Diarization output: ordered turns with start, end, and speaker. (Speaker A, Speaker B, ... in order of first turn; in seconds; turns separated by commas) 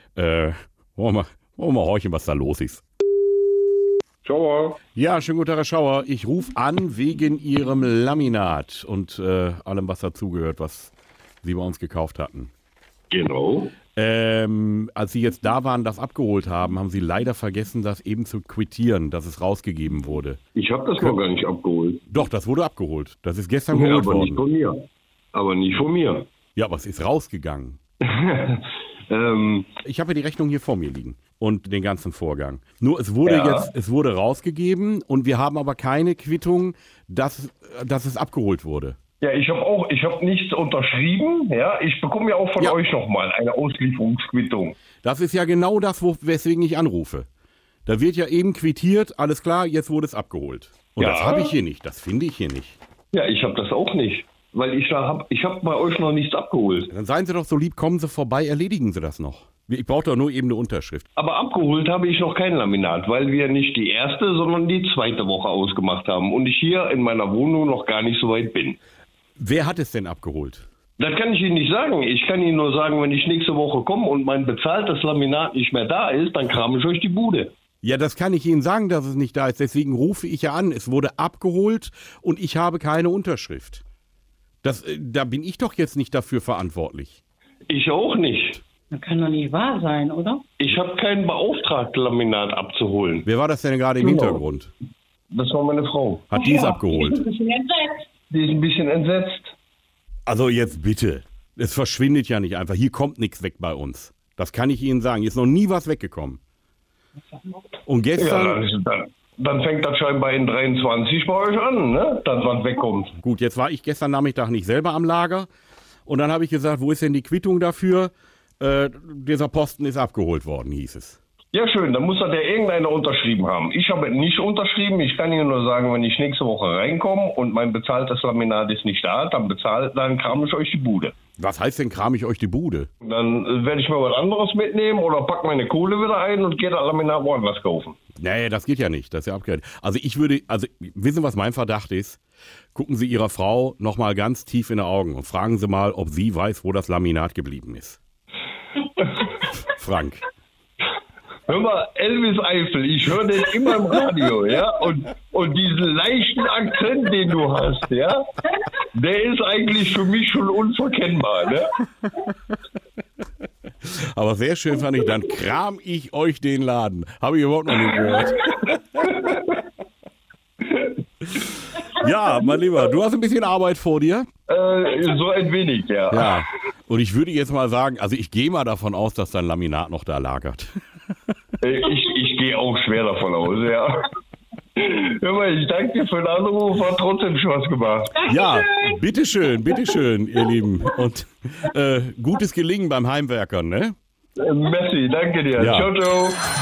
Speaker A: 0.2-2.8, Speaker B: 4.2-4.8, Speaker A: 5.0-12.5, Speaker B: 13.1-13.8, Speaker A: 13.9-20.4, Speaker B: 20.6-22.0, Speaker A: 22.1-24.4, Speaker B: 23.7-26.3, Speaker A: 26.6-27.8, Speaker B: 28.0-29.7, Speaker A: 29.9-39.0, Speaker B: 33.2-33.7, Speaker B: 39.2-44.8, Speaker A: 45.0-47.3, Speaker A: 47.9-52.8, Speaker B: 51.0-51.6, Speaker B: 53.1-56.9, Speaker A: 56.9-61.0, Speaker B: 61.2-68.8, Speaker A: 69.4-70.7, Speaker B: 71.0-77.5, Speaker A: 77.8-83.8, Speaker A: 84.6-87.2, Speaker B: 87.7-88.6, Speaker C: 88.9-90.4, Speaker B: 90.6-93.3, Speaker A: 93.2-94.7, Speaker B: 94.0-94.4, Speaker B: 95.3-96.3, Speaker A: 96.3-97.2, Speaker C: 96.4-98.0, Speaker B: 98.3-99.5, Speaker A: 100.3-106.4, Speaker A: 107.9-108.6, Speaker B: 108.2-113.2, Speaker A: 113.2-115.5, Speaker A: 116.1-121.2, Speaker B: 121.5-131.2, Speaker A: 131.4-132.9, Speaker B: 133.0-138.0, Speaker A: 138.2-142.2, Speaker A: 142.7-148.0, Speaker A: 149.6-150.2, Speaker B: 151.5-158.2, Speaker B: 158.9-161.7, Speaker A: 163.9-169.2, Speaker B: 169.0-169.4, Speaker A: 171.8-174.3, Speaker B: 174.5-176.3, Speaker A: 176.1-180.7, Speaker B: 181.6-184.0, Speaker B: 184.8-188.3, Speaker A: 188.2-193.9, Speaker B: 194.4-196.4, Speaker A: 195.6-195.9